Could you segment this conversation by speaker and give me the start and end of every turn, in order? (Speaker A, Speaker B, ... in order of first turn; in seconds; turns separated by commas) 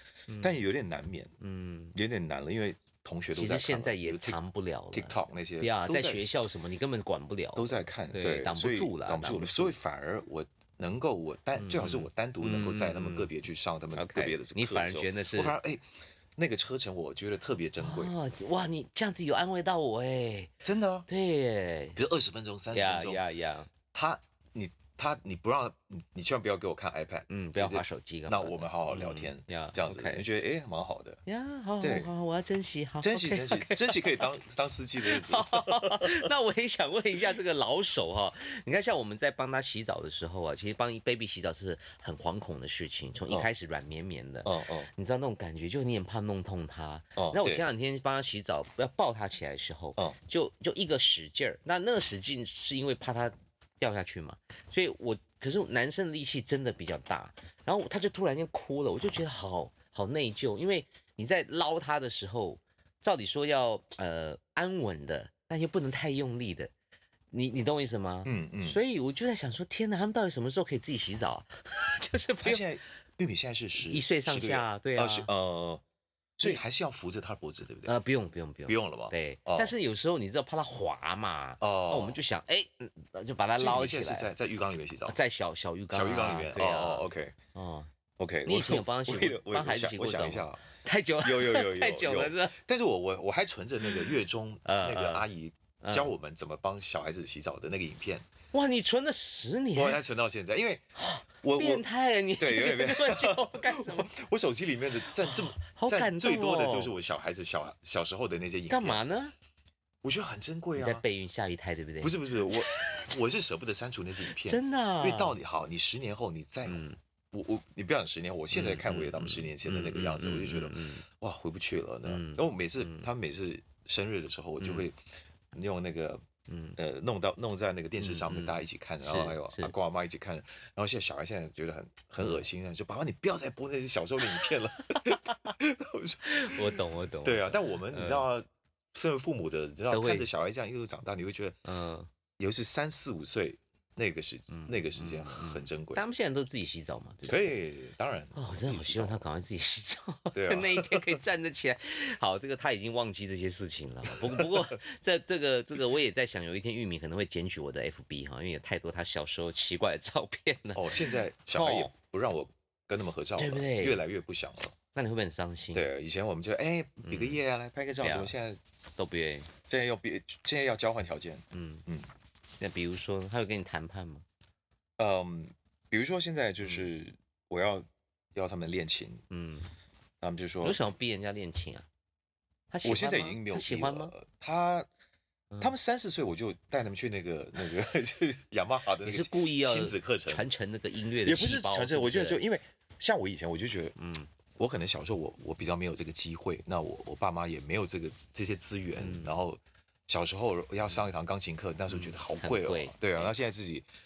Speaker A: 0.3-0.6, Speaker B: 0.4-1.3, Speaker A: 1.4-1.9, Speaker B: 1.9-4.4, Speaker A: 3.3-9.8, Speaker B: 4.9-6.2, Speaker B: 7.5-18.1, Speaker A: 11.6-13.3, Speaker A: 13.9-15.6, Speaker A: 17.8-20.5, Speaker B: 20.6-21.1, Speaker A: 21.1-22.0, Speaker B: 21.9-23.2, Speaker A: 22.7-23.7, Speaker B: 23.9-31.2, Speaker A: 27.3-30.2, Speaker A: 31.2-34.3, Speaker B: 31.8-32.1, Speaker B: 33.0-36.3, Speaker A: 35.0-66.7, Speaker B: 44.4-44.9, Speaker B: 47.1-47.6, Speaker A: 67.3-72.6, Speaker B: 68.2-68.8, Speaker B: 72.4-75.8, Speaker A: 73.8-75.3, Speaker B: 76.4-77.9, Speaker A: 77.8-84.3, Speaker B: 78.7-79.7, Speaker B: 81.6-82.2, Speaker B: 83.6-85.2, Speaker A: 85.1-87.9, Speaker B: 85.9-87.3, Speaker B: 88.2-90.6, Speaker A: 88.5-92.5, Speaker B: 91.2-98.3, Speaker A: 94.6-95.2, Speaker A: 95.8-96.1, Speaker A: 98.5-100.0, Speaker B: 99.7-100.9, Speaker A: 101.0-104.1, Speaker B: 101.4-101.8, Speaker B: 102.4-109.0, Speaker A: 105.2-106.9, Speaker A: 108.7-109.3, Speaker B: 110.0-111.0, Speaker A: 110.7-113.1, Speaker B: 112.0-126.2, Speaker A: 114.4-115.4, Speaker A: 116.7-117.0, Speaker A: 118.5-121.0, Speaker A: 122.0-123.1, Speaker A: 124.6-124.9, Speaker A: 126.5-126.8, Speaker B: 126.8-141.6, Speaker A: 128.0-129.7, Speaker A: 132.2-132.4, Speaker A: 134.4-135.4, Speaker A: 136.2-138.3, Speaker A: 139.9-140.3, Speaker A: 141.6-142.1, Speaker B: 142.4-146.0, Speaker A: 144.5-147.6, Speaker B: 147.2-149.2, Speaker A: 148.3-161.9, Speaker B: 150.3-151.2, Speaker B: 154.0-154.7, Speaker B: 160.7-164.8, Speaker A: 163.4-164.0, Speaker A: 164.9-165.9, Speaker B: 165.7-168.6, Speaker A: 167.0-167.4, Speaker A: 168.0-168.3, Speaker A: 169.0-169.5, Speaker B: 169.7-172.1, Speaker A: 171.5-171.8, Speaker A: 172.5-174.2, Speaker B: 175.0-179.2, Speaker A: 176.6-176.9, Speaker A: 179.3-179.7, Speaker B: 180.2-180.8, Speaker A: 180.6-181.9, Speaker A: 182.7-184.1, Speaker B: 182.8-184.9, Speaker B: 185.6-190.4, Speaker A: 189.0-192.4, Speaker B: 191.2-193.9, Speaker A: 194.0-194.3, Speaker B: 194.5-203.8, Speaker A: 198.9-199.4, Speaker A: 201.9-203.3